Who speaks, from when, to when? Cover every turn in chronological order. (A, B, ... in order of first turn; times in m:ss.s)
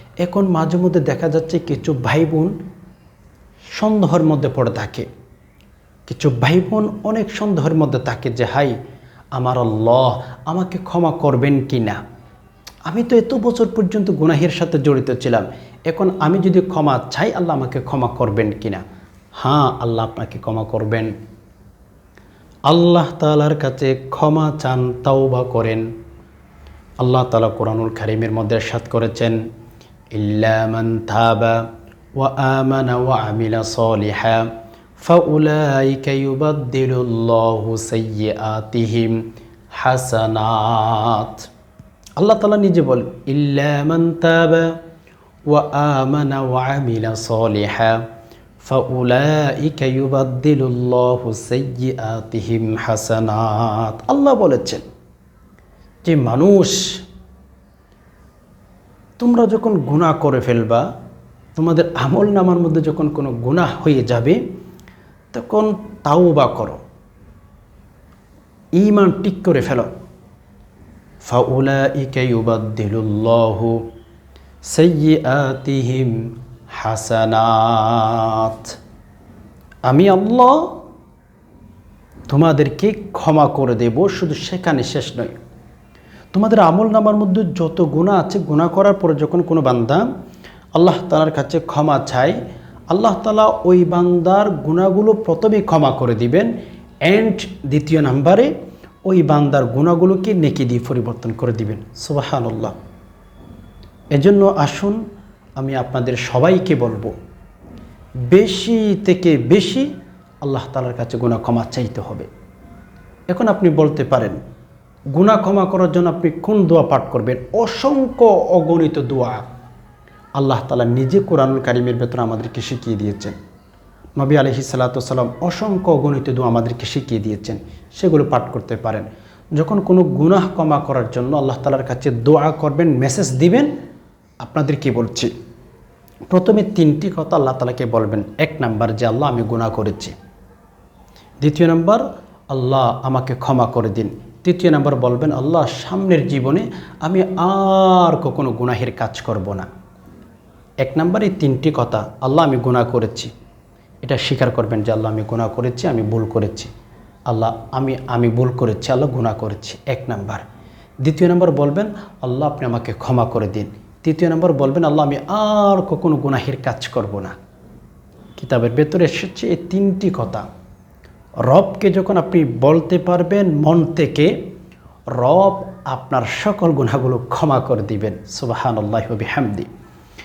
0:00.2-0:02.5 A
0:03.7-0:05.1 A
0:06.1-0:08.7 A
0:09.3-0:12.0 A
0:12.9-0:18.8 A
0:19.4-0:21.1 A
0:22.7-0:25.9 A
0:27.0-0:29.4 A
0:30.1-0:31.6 A
0:32.2-0:34.5 A
0:35.0-0:41.4 A
0:42.2-0:44.8 A
0:45.5-0:48.0 A
0:48.6-0:54.8 A
0:56.0-0:57.0 A
0:59.2-1:00.8 A
1:01.6-1:04.4 A
1:05.3-1:06.8 A
1:08.8-1:09.9 A
1:11.2-1:13.8 A
1:14.6-1:18.7 A
1:19.9-1:20.7 A
1:22.3-1:25.3 A
1:26.3-1:30.0 A
1:30.8-1:32.4 A
1:32.9-1:36.5 A
1:37.0-1:38.5 A
1:39.0-1:42.7 A
1:44.1-1:45.0 A
1:45.6-1:47.1 A
1:48.3-1:49.9 A
1:50.4-1:52.3 A
1:53.3-1:54.4 A
1:55.1-1:59.4 A
2:00.4-2:03.3 A
2:04.2-2:09.0 A
2:09.6-2:13.7 A
2:14.4-2:15.3 A
2:16.3-2:20.1 A
2:21.4-2:29.7 A
2:30.8-2:33.3 A
2:34.0-2:36.7 A
2:37.3-2:40.4 A
2:41.0-2:47.4 A
2:48.4-2:50.4 A
2:51.4-2:54.3 A
2:55.1-2:59.7 A